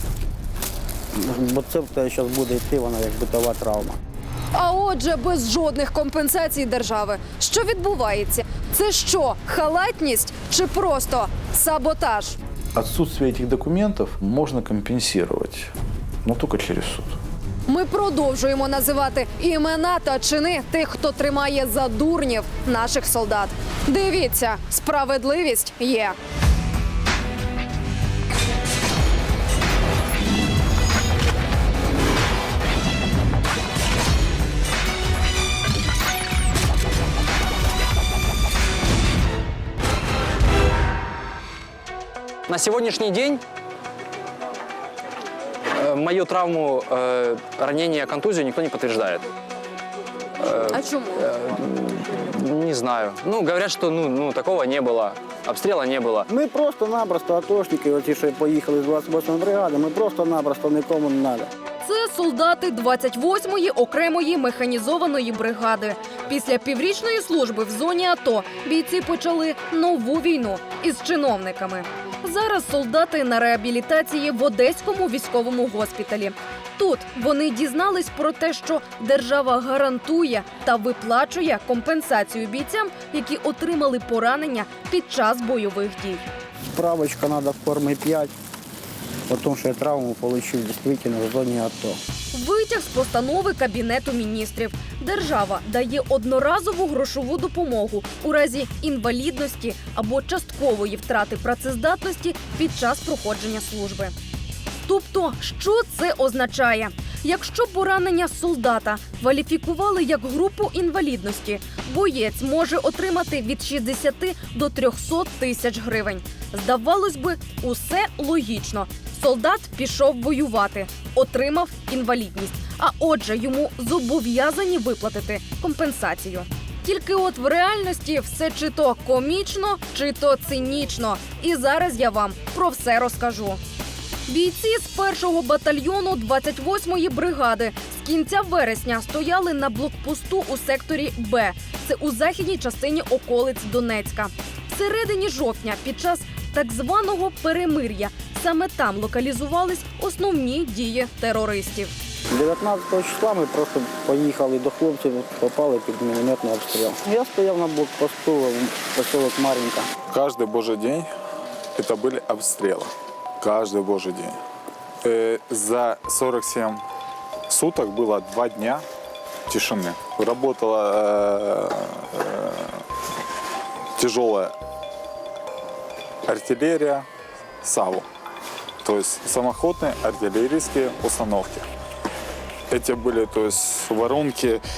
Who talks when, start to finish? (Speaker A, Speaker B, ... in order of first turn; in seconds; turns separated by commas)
Speaker A: 1.1-4.0, Speaker B: 4.5-12.4, Speaker C: 12.7-15.6, Speaker C: 16.2-17.1, Speaker B: 17.7-26.1, Speaker D: 42.5-43.4, Speaker D: 45.8-49.2, Speaker D: 50.4-56.3, Speaker B: 50.7-51.2, Speaker A: 56.3-61.5, Speaker B: 61.8-86.2, Speaker A: 86.7-88.3, Speaker A: 89.3-92.0, Speaker B: 92.3-104.1, Speaker B: 104.8-133.6, Speaker B: 134.3-151.9, Speaker A: 152.3-159.9, Speaker E: 160.1-161.1, Speaker E: 161.8-162.9, Speaker E: 163.4-164.4, Speaker E: 165.0-166.8, Speaker E: 167.5-168.8, Speaker E: 169.5-172.8, Speaker E: 174.0-174.5, Speaker E: 176.3-177.1, Speaker E: 177.6-178.1, Speaker E: 178.8-181.7, Speaker E: 182.7-184.6